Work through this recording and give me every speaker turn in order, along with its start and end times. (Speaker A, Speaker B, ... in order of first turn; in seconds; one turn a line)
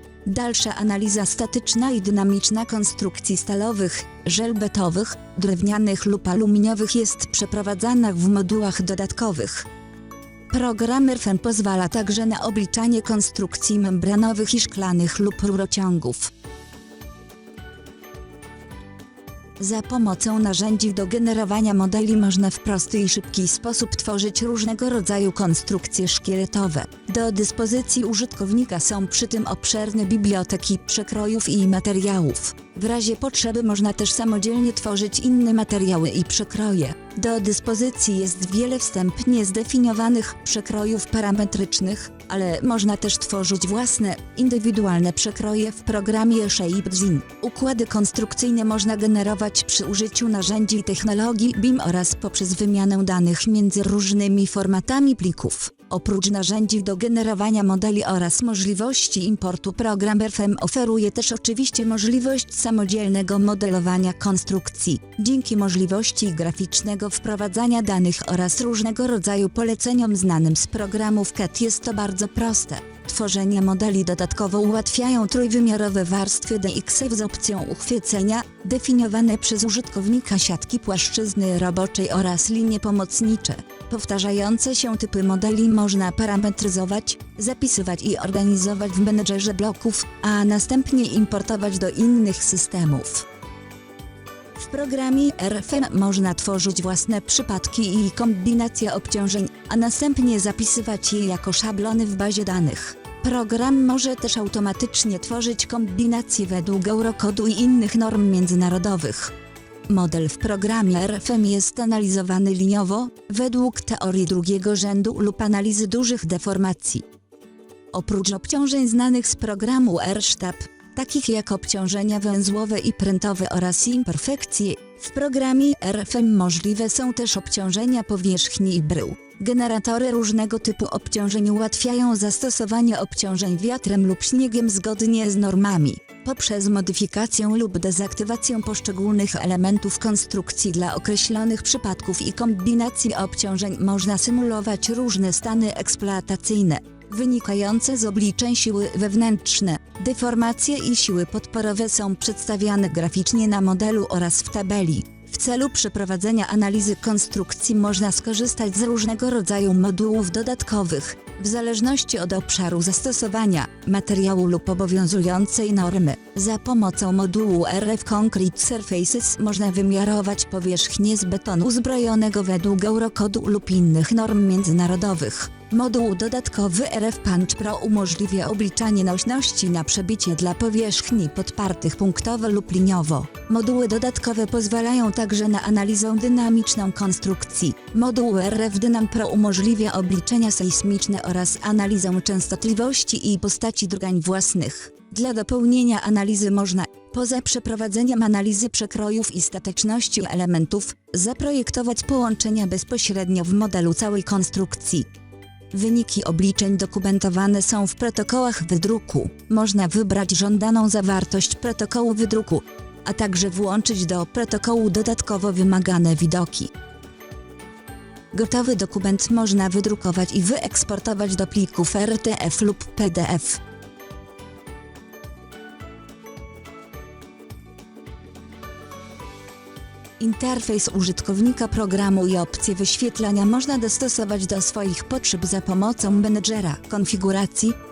Speaker A: 0.2-9.7
Speaker A: 10.5-16.3
Speaker A: 19.6-93.2
Speaker A: 94.6-109.3
Speaker A: 109.9-117.1
Speaker A: 117.9-205.1
Speaker A: 205.7-216.7
Speaker A: 218.3-223.6
Speaker A: 230.2-237.8